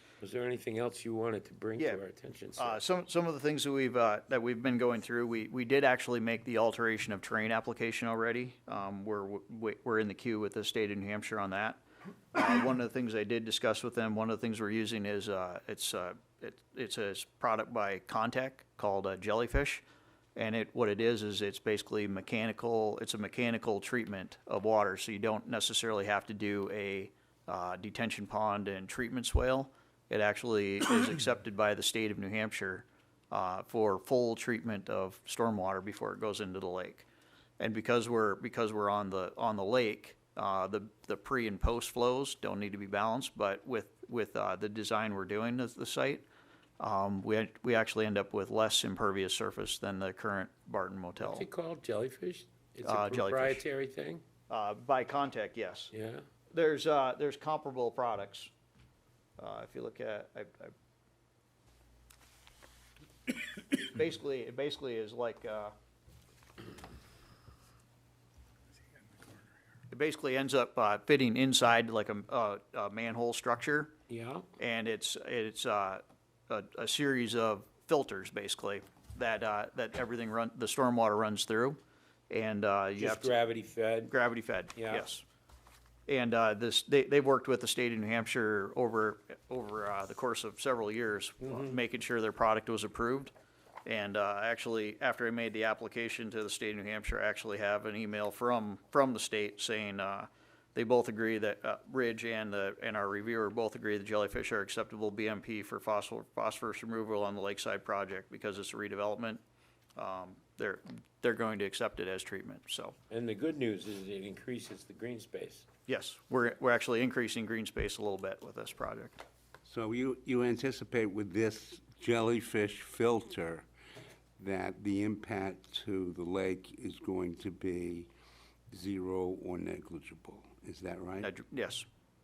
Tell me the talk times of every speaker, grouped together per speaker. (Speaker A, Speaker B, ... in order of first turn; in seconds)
Speaker A: 0.2-2.8, 51.2-54.2, 55.9-56.2, 74.1-74.5, 83.0-84.1, 84.7-85.1, 91.4-91.8, 113.1-115.6
Speaker B: 2.6-11.8, 12.3-19.8, 20.4-37.0, 37.6-46.2, 46.8-51.5, 52.8-53.6, 54.5-55.9, 56.5-58.5, 59.4-60.7, 63.6-65.7, 69.9-73.9, 74.6-81.8, 82.3-83.4, 84.1-85.2, 86.1-93.3, 93.8-109.4, 110.0-112.9, 115.9-119.2, 131.2-131.8
Speaker C: 119.6-123.6, 124.4-128.1, 128.7-131.3